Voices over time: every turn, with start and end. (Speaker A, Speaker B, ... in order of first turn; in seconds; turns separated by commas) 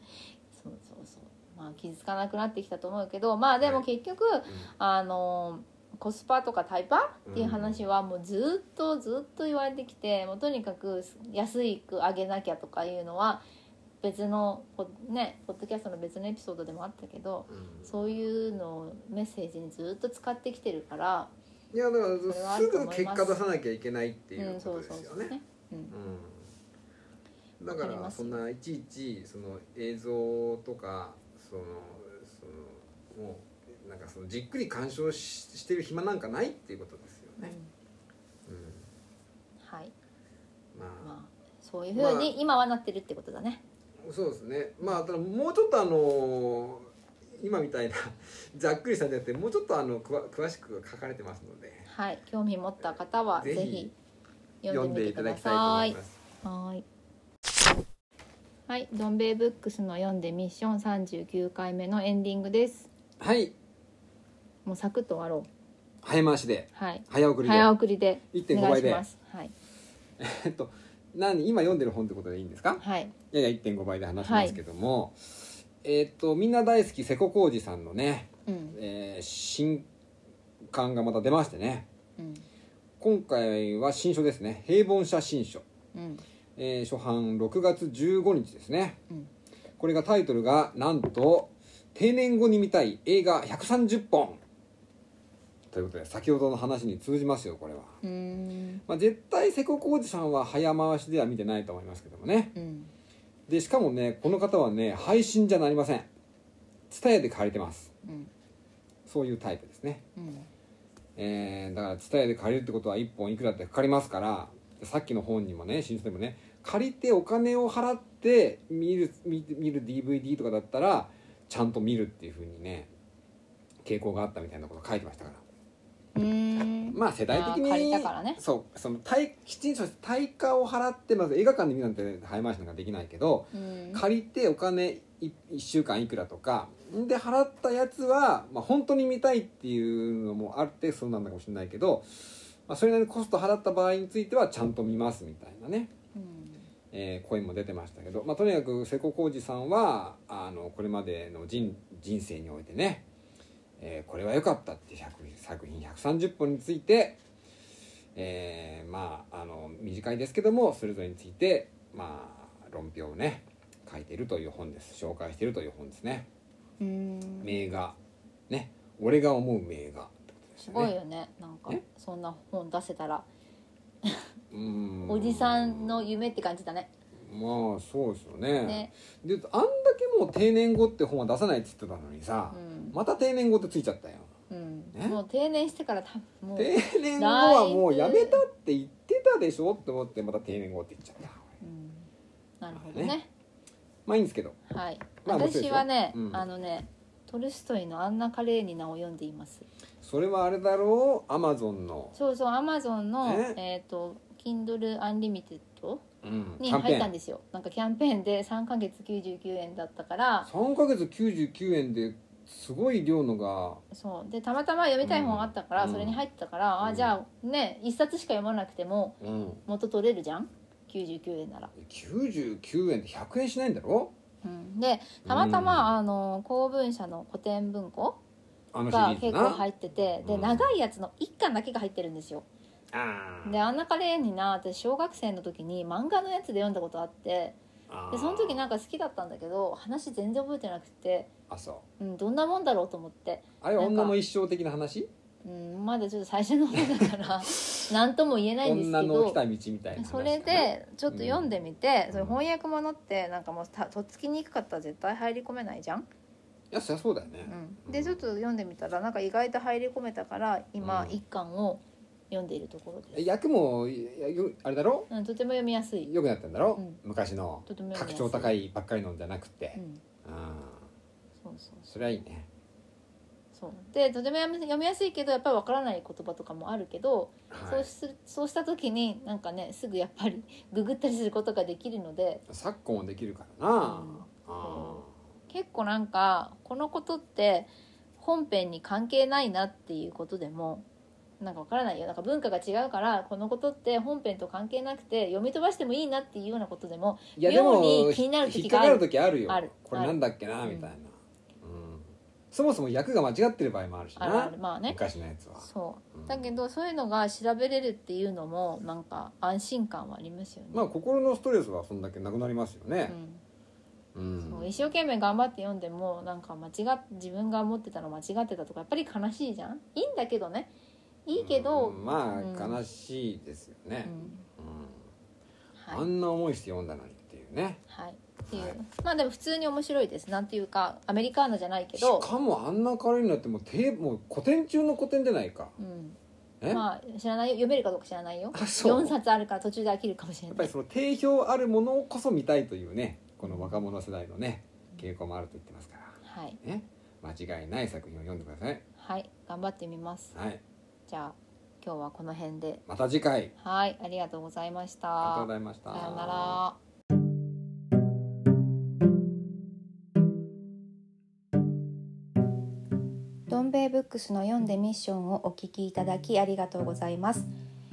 Speaker A: 0.5-13.4, Speaker B: 7.3-7.8, Speaker A: 14.0-21.3, Speaker B: 17.5-18.2, Speaker B: 21.7-25.4, Speaker A: 22.2-23.4, Speaker A: 24.4-25.9, Speaker B: 25.9-26.5, Speaker B: 27.6-37.5, Speaker A: 27.7-28.4, Speaker A: 37.4-37.7, Speaker B: 38.5-38.9, Speaker A: 39.6-39.9, Speaker B: 40.7-41.1, Speaker A: 41.0-43.6, Speaker B: 41.9-42.3, Speaker B: 44.0-51.9, Speaker A: 51.9-53.9, Speaker B: 53.3-53.9, Speaker A: 54.6-56.8, Speaker B: 54.7-56.2, Speaker A: 58.7-62.9, Speaker B: 63.2-63.5, Speaker A: 64.7-65.5, Speaker B: 66.0-67.7, Speaker A: 66.7-69.5, Speaker B: 68.3-69.0, Speaker B: 70.2-79.9, Speaker A: 72.8-73.1, Speaker A: 74.2-74.6, Speaker A: 78.5-78.8, Speaker B: 80.7-81.9, Speaker A: 82.2-82.5, Speaker B: 83.0-85.6, Speaker A: 85.9-86.2, Speaker B: 86.6-89.0, Speaker B: 89.8-94.4, Speaker B: 95.7-98.0, Speaker A: 98.0-98.8, Speaker B: 98.9-102.5, Speaker A: 102.5-102.9, Speaker B: 103.5-106.1, Speaker B: 106.9-107.9, Speaker A: 108.0-108.3, Speaker B: 109.0-110.0, Speaker A: 110.2-110.5, Speaker B: 111.2-122.9, Speaker B: 123.8-125.4, Speaker A: 126.1-128.4, Speaker B: 126.9-145.9, Speaker A: 133.5-134.0, Speaker A: 146.1-146.7, Speaker B: 146.9-153.0, Speaker B: 153.8-157.2, Speaker B: 158.1-166.3, Speaker A: 166.8-167.5, Speaker B: 167.4-168.0, Speaker B: 168.5-170.9, Speaker A: 170.6-173.3, Speaker B: 174.5-176.1, Speaker A: 175.1-176.9, Speaker B: 177.2-184.3, Speaker A: 178.6-178.9, Speaker A: 182.5-183.0, Speaker A: 184.5-188.4, Speaker B: 184.9-185.2, Speaker B: 186.6-191.4, Speaker A: 191.6-192.1, Speaker A: 192.6-193.3, Speaker B: 192.7-193.2, Speaker B: 194.1-194.6, Speaker A: 194.7-199.7, Speaker B: 195.2-196.4, Speaker B: 200.0-202.1, Speaker A: 202.1-206.0, Speaker B: 203.2-203.6, Speaker B: 206.2-207.1, Speaker A: 206.6-210.5, Speaker B: 210.4-213.8, Speaker A: 213.9-221.7, Speaker B: 215.0-216.2, Speaker B: 216.8-217.2, Speaker B: 219.2-219.6, Speaker B: 221.7-224.1, Speaker A: 224.4-228.2, Speaker B: 225.2-225.9, Speaker B: 228.7-229.6, Speaker A: 228.9-232.4, Speaker B: 230.2-230.7, Speaker B: 232.9-233.8, Speaker A: 233.4-237.6, Speaker B: 237.9-238.7, Speaker A: 238.1-241.3, Speaker B: 241.5-241.8, Speaker A: 242.0-244.2, Speaker B: 243.6-245.1, Speaker A: 245.4-249.4, Speaker B: 248.6-251.5, Speaker A: 249.9-256.1, Speaker B: 252.1-252.4, Speaker B: 256.7-258.2, Speaker A: 257.4-263.2, Speaker B: 260.8-261.2, Speaker B: 263.1-265.1, Speaker A: 265.1-266.1, Speaker B: 266.1-270.9, Speaker A: 266.8-267.0, Speaker A: 267.7-268.5, Speaker A: 269.8-270.0, Speaker A: 271.4-271.9, Speaker B: 271.9-272.5, Speaker A: 273.5-282.4, Speaker B: 277.5-277.9, Speaker B: 282.5-285.1, Speaker A: 283.8-290.9, Speaker A: 291.4-300.9, Speaker B: 297.4-306.5, Speaker A: 304.2-305.0, Speaker A: 305.6-310.9, Speaker B: 310.7-313.1, Speaker A: 313.1-313.4, Speaker B: 314.1-314.9, Speaker A: 314.4-320.7, Speaker A: 321.2-322.8, Speaker B: 321.3-325.1, Speaker A: 324.0-324.5, Speaker A: 325.7-326.1, Speaker B: 325.9-327.8, Speaker A: 327.9-332.3, Speaker B: 328.4-328.8, Speaker B: 331.9-335.7, Speaker A: 335.8-336.2, Speaker A: 336.7-340.7, Speaker B: 338.5-339.1, Speaker B: 340.5-348.8, Speaker A: 343.4-343.8, Speaker A: 346.2-346.6, Speaker A: 349.0-350.3, Speaker B: 350.3-350.6, Speaker A: 351.1-352.8, Speaker B: 352.9-353.5, Speaker A: 353.6-356.8, Speaker B: 355.2-356.6, Speaker C: 363.5-367.5